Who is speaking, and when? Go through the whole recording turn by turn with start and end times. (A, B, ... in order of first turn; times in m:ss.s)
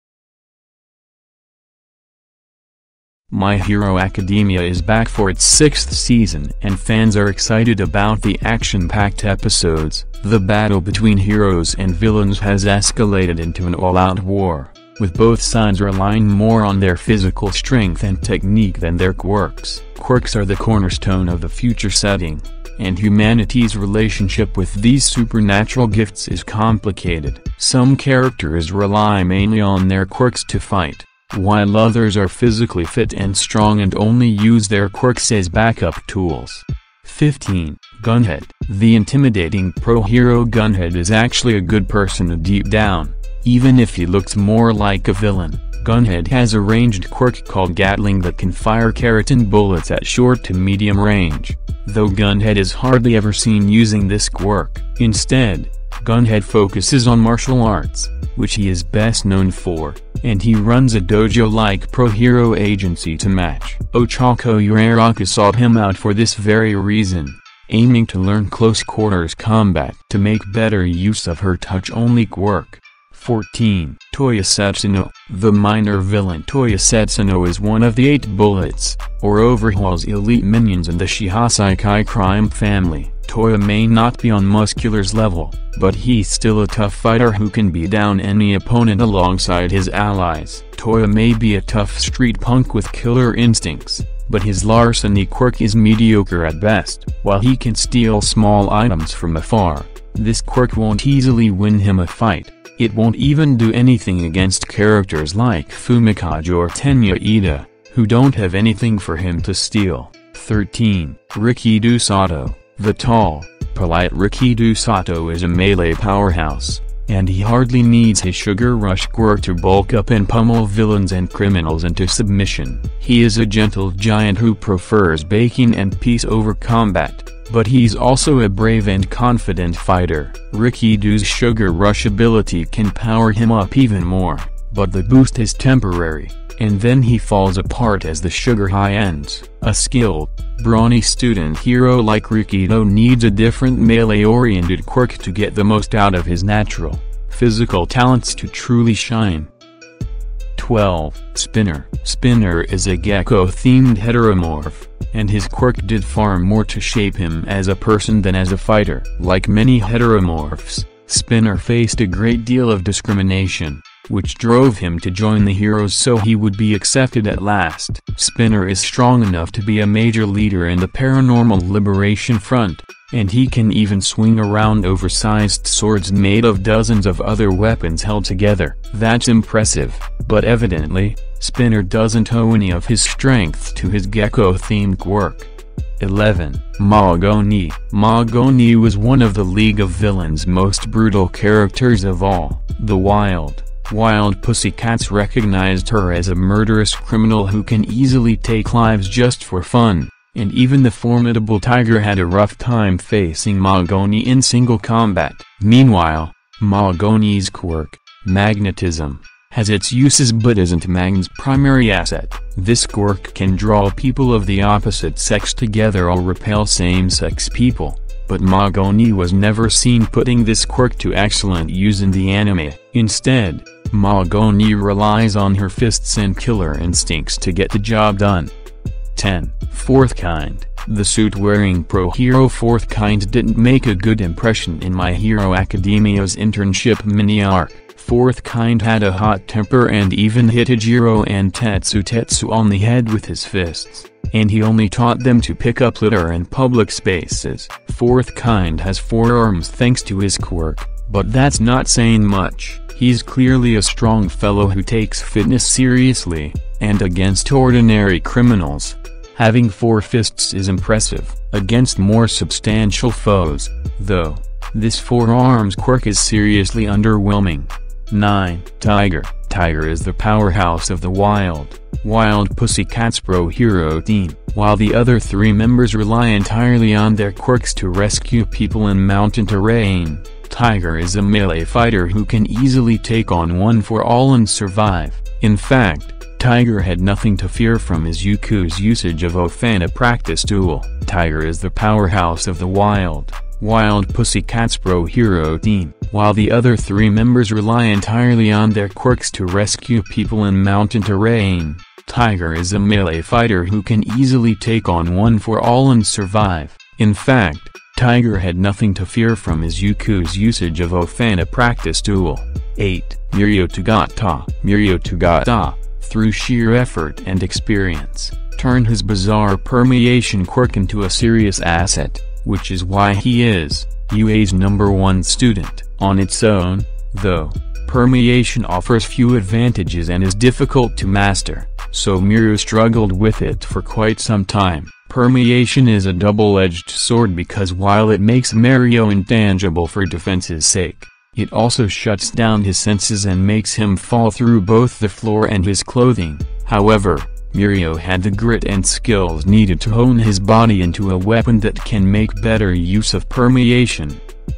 0:03.3-2:29.5 A
2:30.6-3:48.5 A
3:49.1-5:54.2 A